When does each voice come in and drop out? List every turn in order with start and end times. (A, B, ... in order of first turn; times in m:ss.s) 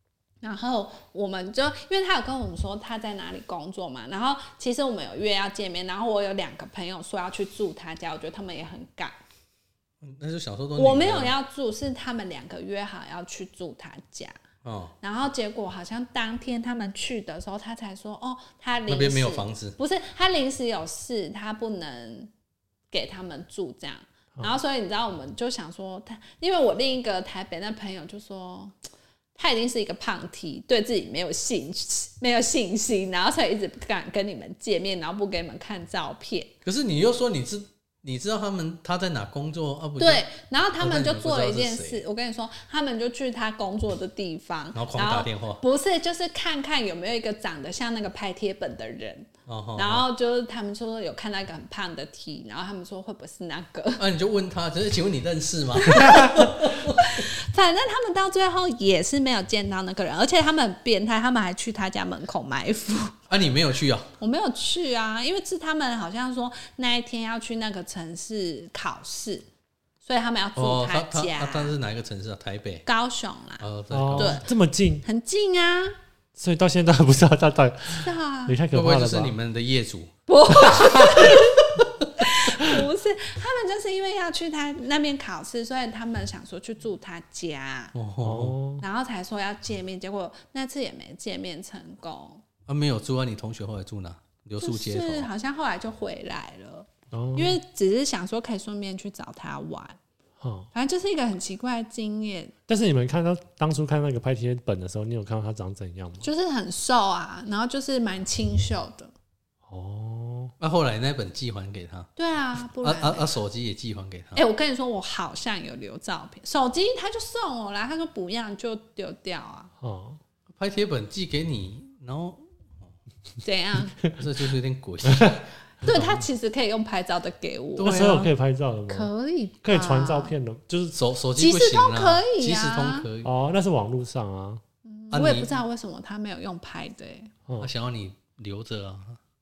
0:00.4-0:09.2 A
0:10.0-0:11.3 B
0:10.8-0:14.4 A
0:14.6-0:14.9 B
0:15.0-0:22.3 A
0:18.9-0:19.8 B
0:22.9-0:28.8 A
0:29.4-0:36.5 A
0:36.6-0:40.2 B
0:40.0-0:54.0 A
0:40.8-0:42.0 B
0:44.8-0:45.6 B
0:49.5-0:50.1 B
0:54.0-0:57.2 B
0:55.8-1:03.2 A
1:03.3-1:04.1 B
1:04.2-1:09.5 A
1:10.0-1:11.7 A
1:10.6-1:12.9 B
1:12.9-1:13.6 A
1:13.6-1:14.4 B
1:13.9-1:15.0 C
1:14.2-1:14.4 A
1:15.0-1:16.0 A
1:16.4-1:19.4 C
1:18.0-1:18.6 A
1:18.7-1:20.1 B
1:20.3-1:28.0 A
1:20.8-1:21.3 C
1:28.0-1:28.6 B
1:28.2-1:28.8 C
1:28.8-1:32.4 A
1:32.7-1:35.3 B
1:34.6-1:40.0 A
1:37.1-1:37.6 C
1:40.4-1:40.7 C
1:40.7-1:42.5 A
1:42.7-1:46.3 C
1:46.2-1:49.1 A
1:49.7-1:50.5 C
1:50.6-1:52.1 B
1:52.2-1:53.3 A
1:52.8-1:54.4 B
1:54.4-1:59.7 A
1:59.8-2:00.2 C
2:00.6-2:02.4 B
2:03.4-2:04.0 A
2:04.1-2:06.2 B
2:05.1-2:05.4 C
2:05.8-2:08.0 A
2:07.8-2:08.3 B
2:07.8-2:09.1 C
2:08.9-2:10.4 A
2:09.6-2:11.0 C
2:11.0-2:13.3 B
2:11.4-2:13.1 A
2:13.2-2:14.6 C
2:14.8-2:17.3 A
2:15.1-2:15.6 B
2:17.6-2:19.2 B